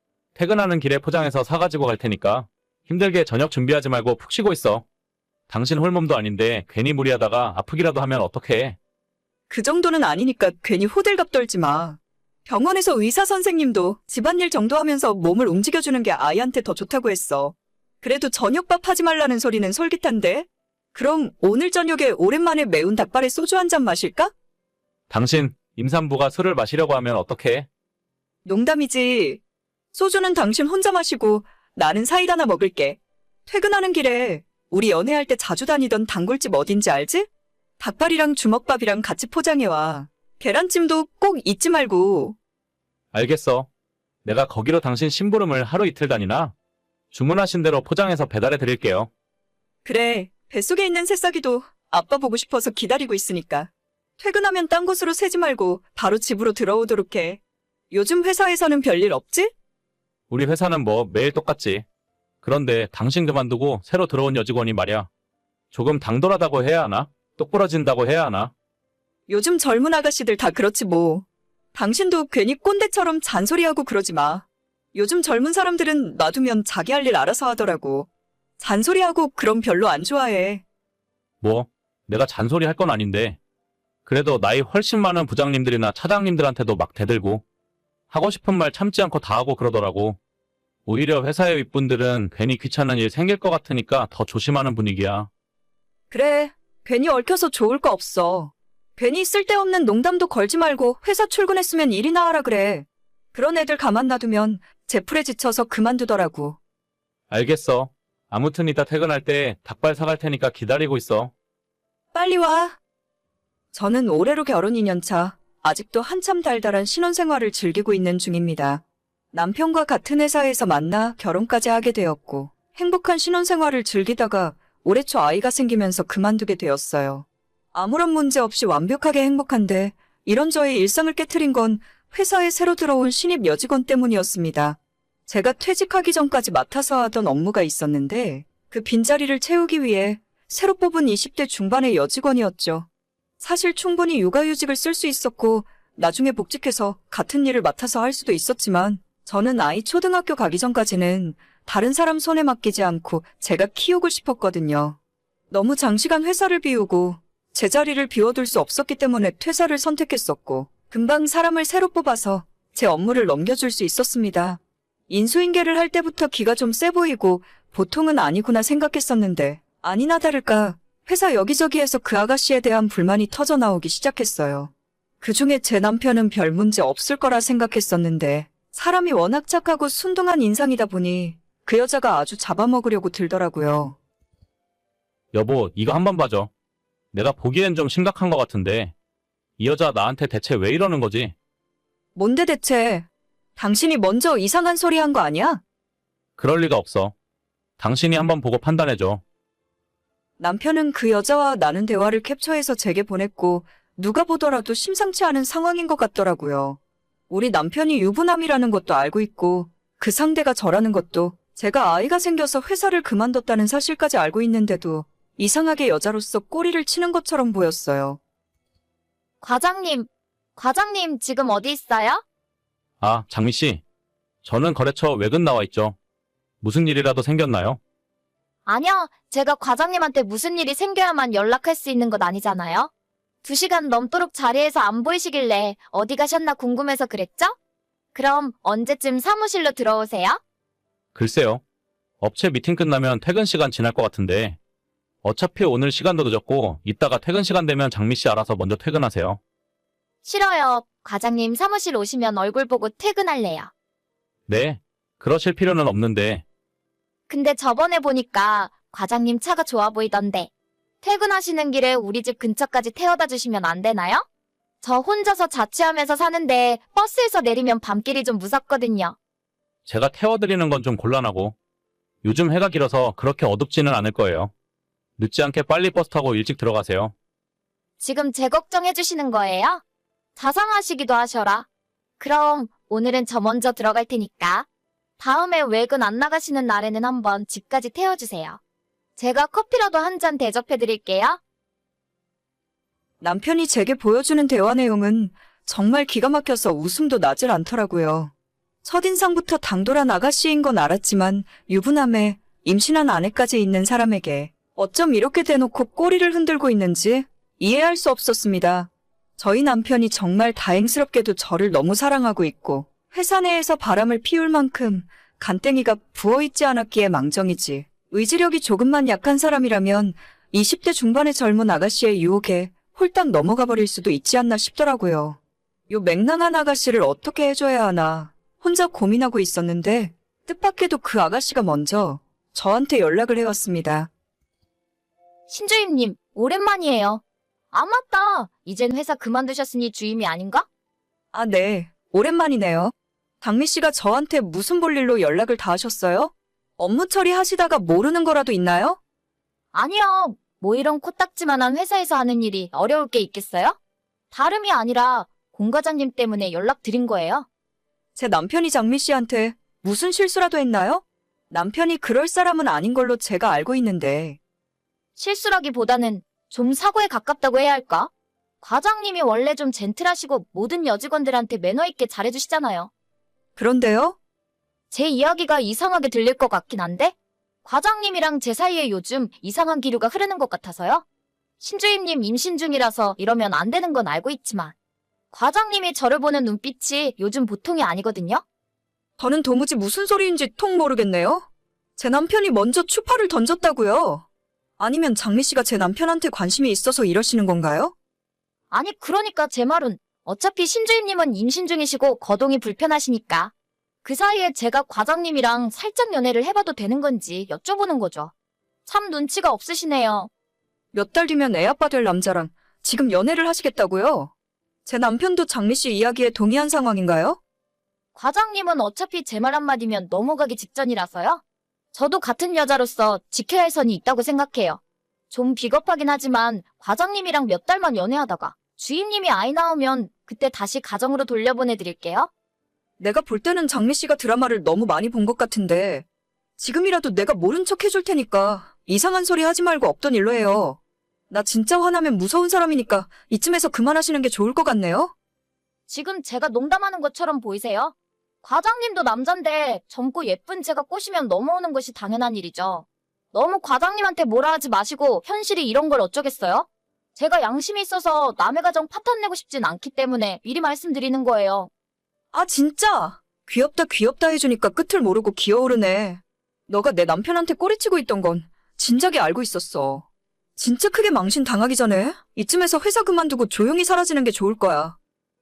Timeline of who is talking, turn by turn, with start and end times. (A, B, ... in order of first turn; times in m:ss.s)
0:00.3-0:04.8 A
0:05.5-0:08.8 A
0:09.5-0:24.3 B
0:25.1-0:27.7 A
0:28.4-0:29.4 B
0:29.9-0:37.3 B
0:37.8-0:42.4 B
0:43.1-0:43.7 A
0:44.2-0:46.5 A
0:47.1-0:49.1 A
0:49.8-0:57.4 B
0:57.9-0:59.5 B
1:00.3-1:01.8 A
1:02.4-1:05.1 A
1:05.7-1:08.5 A
1:09.3-1:20.6 B
1:21.4-1:23.4 A
1:24.0-1:27.4 A
1:28.1-1:30.2 A
1:30.8-1:35.3 A
1:36.1-1:46.6 B
1:47.3-1:51.3 A
1:52.1-1:52.8 B
1:53.7-2:22.9 B
2:23.4-2:35.0 B
2:35.5-3:04.0 B
3:05.3-3:06.5 A
3:07.1-3:08.9 A
3:09.6-3:11.3 A
3:12.2-3:15.6 B
3:16.4-3:17.1 A
3:17.8-3:19.2 A
3:20.4-3:26.8 B
3:27.3-3:38.2 B
3:39.4-3:42.2 C
3:43.0-3:43.8 A
3:44.4-3:46.0 A
3:46.6-3:47.8 A
3:48.6-3:52.9 C
3:53.4-3:57.5 C
3:58.1-4:00.4 C
4:01.1-4:01.6 A
4:02.2-4:04.6 A
4:05.2-4:09.4 A
4:10.2-4:13.7 C
4:14.5-4:16.4 A
4:17.3-4:20.5 C
4:21.0-4:24.2 C
4:24.8-4:29.1 C
4:29.8-4:31.6 A
4:32.2-4:34.5 A
4:35.2-4:37.1 A
4:38.0-4:39.8 C
4:40.4-4:41.7 C
4:42.2-4:44.7 C
4:45.2-4:48.6 C
4:49.2-4:51.4 C
4:53.2-4:58.3 B
4:58.8-5:25.4 B
5:25.9-5:34.1 B
5:35.5-5:40.6 C
5:41.3-5:49.0 B
5:49.7-5:53.8 C
5:54.3-5:57.4 C
5:58.2-6:04.4 B
6:05.2-6:08.1 C
6:08.6-6:12.9 C
6:13.6-6:14.2 B
6:14.9-6:21.0 C
6:21.6-6:24.7 C
6:25.3-6:28.4 C
6:29.2-6:34.2 B
6:34.8-6:37.9 B
6:38.7-6:43.5 C
6:44.0-6:48.3 C
6:48.8-6:50.3 C
6:50.9-6:54.3 B
6:54.8-6:57.4 B
6:58.1-7:01.4 C
7:01.9-7:12.3 C
7:13.0-7:16.0 B
7:16.6-7:20.8 B
7:21.3-7:25.1 B
7:25.9-7:41.7 C
7:42.3-7:50.0 B
7:50.6-7:55.0 B